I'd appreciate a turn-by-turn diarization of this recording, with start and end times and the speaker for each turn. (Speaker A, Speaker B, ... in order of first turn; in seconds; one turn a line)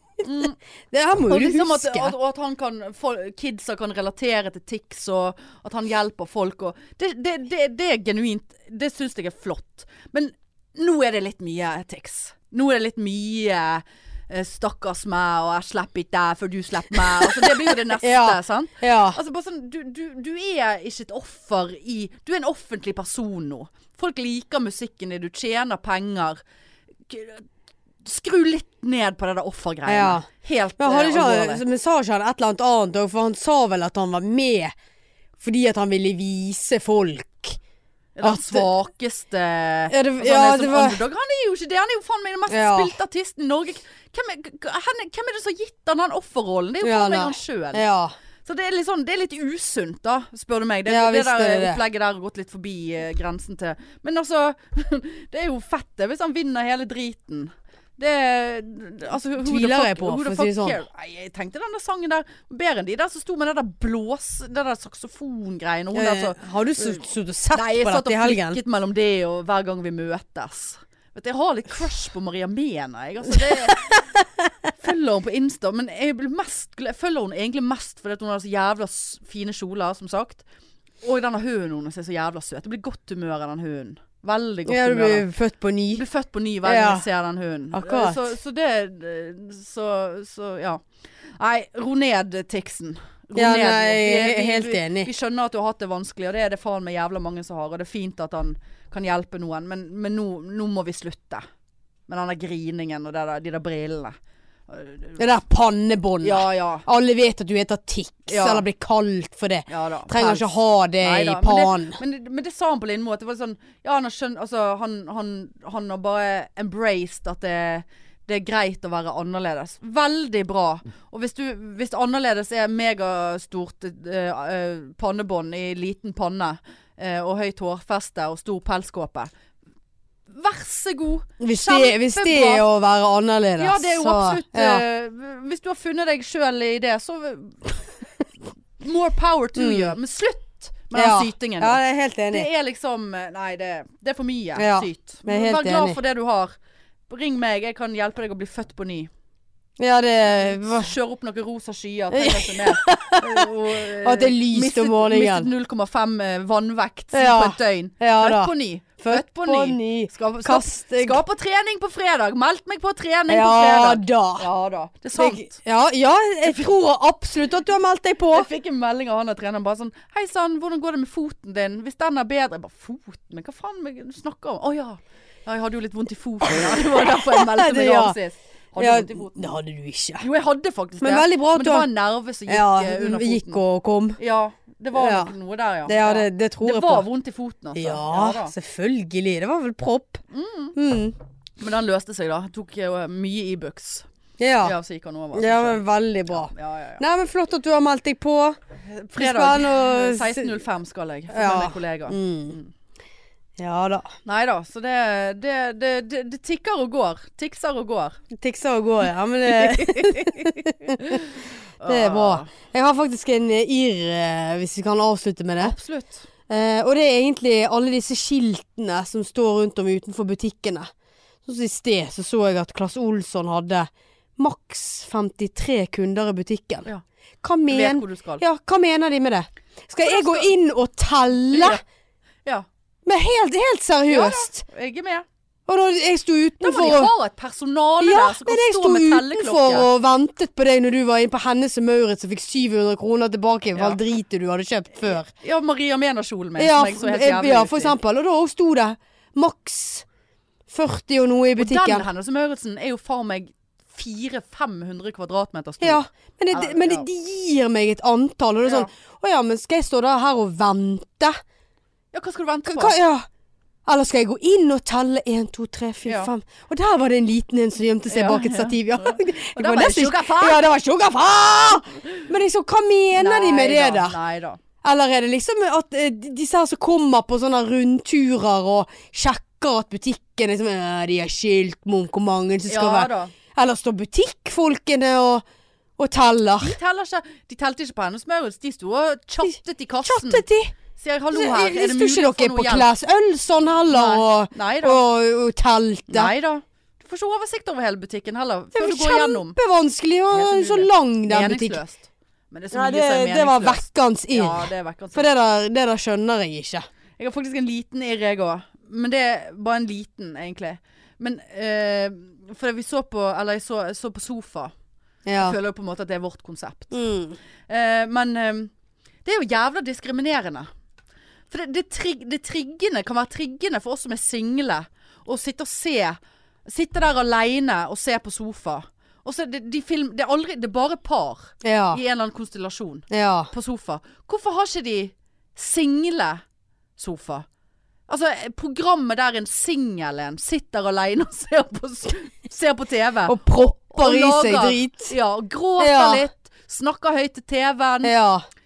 Speaker A: 0.2-0.6
Speaker B: 0.4-2.1
Speaker A: 1.3-26.4
Speaker B: 17.2-19.2
Speaker A: 27.1-27.5
Speaker A: 28.0-31.6
Speaker B: 29.9-30.3
Speaker B: 30.8-34.7
Speaker B: 35.4-37.6
Speaker A: 38.2-47.8
Speaker B: 38.2-38.7
Speaker B: 39.9-41.0
Speaker B: 42.5-42.9
Speaker B: 46.8-48.1
Speaker A: 48.5-67.0
Speaker B: 50.9-51.8
Speaker B: 59.4-60.8
Speaker B: 65.9-68.6
Speaker A: 67.5-74.2
Speaker A: 74.7-80.5
Speaker A: 81.0-85.3
Speaker B: 84.7-86.0
Speaker A: 85.9-90.8
Speaker B: 86.6-87.1
Speaker B: 87.7-88.2
Speaker A: 91.4-101.4
Speaker B: 93.4-95.1
Speaker A: 102.1-104.2
Speaker A: 104.7-105.2
Speaker B: 105.2-112.0
Speaker A: 106.2-106.9
Speaker A: 108.3-108.7
Speaker A: 109.7-129.3
Speaker A: 130.3-132.7
Speaker B: 131.4-134.8
Speaker A: 133.6-137.9
Speaker A: 138.8-146.5
Speaker B: 139.6-139.9
Speaker B: 140.9-142.5
Speaker B: 144.6-146.0
Speaker A: 147.1-149.1
Speaker B: 149.8-150.9
Speaker A: 150.3-165.6
Speaker B: 152.1-155.5
Speaker B: 157.1-161.2
Speaker B: 163.3-164.5
Speaker B: 165.2-168.5
Speaker A: 168.3-179.6
Speaker B: 177.2-178.2
Speaker B: 178.8-180.3
Speaker A: 180.2-183.6
Speaker B: 181.0-181.9
Speaker B: 182.5-184.2
Speaker A: 184.2-188.5
Speaker B: 184.9-185.3
Speaker B: 185.9-187.1
Speaker B: 187.8-190.2
Speaker A: 190.3-190.8
Speaker B: 190.8-191.2
Speaker A: 191.6-194.1
Speaker B: 194.4-194.8
Speaker A: 194.6-197.0
Speaker B: 195.3-198.6
Speaker A: 198.8-202.7
Speaker B: 199.2-200.5
Speaker B: 201.3-202.6
Speaker B: 203.6-204.1
Speaker A: 204.2-208.2
Speaker B: 208.3-211.3
Speaker A: 209.5-212.5
Speaker B: 211.8-215.8
Speaker A: 215.6-216.3
Speaker B: 216.5-220.9
Speaker B: 221.4-226.9
Speaker B: 227.4-231.8
Speaker A: 227.7-228.4
Speaker A: 230.0-230.5
Speaker A: 231.5-231.8
Speaker B: 233.1-234.6
Speaker A: 234.1-235.2
Speaker B: 235.7-237.1
Speaker A: 236.6-239.9
Speaker B: 238.0-245.3
Speaker A: 245.3-248.0
Speaker B: 246.6-250.1
Speaker B: 250.7-252.1
Speaker A: 251.6-257.1
Speaker B: 255.8-261.4
Speaker A: 258.6-258.9
Speaker A: 262.1-263.0
Speaker B: 262.7-263.3
Speaker B: 263.9-274.2
Speaker A: 266.1-266.3
Speaker A: 268.1-270.6
Speaker A: 273.1-274.6
Speaker B: 274.8-285.4
Speaker A: 282.7-283.3
Speaker B: 286.0-286.8
Speaker A: 286.6-290.4
Speaker B: 290.0-290.8
Speaker A: 291.0-292.9
Speaker B: 291.3-296.3
Speaker A: 293.9-295.0
Speaker A: 296.1-299.6
Speaker B: 298.7-301.8
Speaker A: 300.3-305.3
Speaker B: 302.7-306.9
Speaker A: 307.2-314.7
Speaker B: 315.3-315.6
Speaker A: 315.4-317.1
Speaker B: 316.9-317.4
Speaker A: 317.7-318.7
Speaker A: 319.2-320.7
Speaker A: 321.5-336.4
Speaker B: 331.6-332.0
Speaker B: 333.1-333.5
Speaker A: 337.0-337.5
Speaker A: 338.1-343.4
Speaker B: 343.3-345.1
Speaker A: 343.9-348.1
Speaker B: 345.8-346.2
Speaker B: 348.0-348.4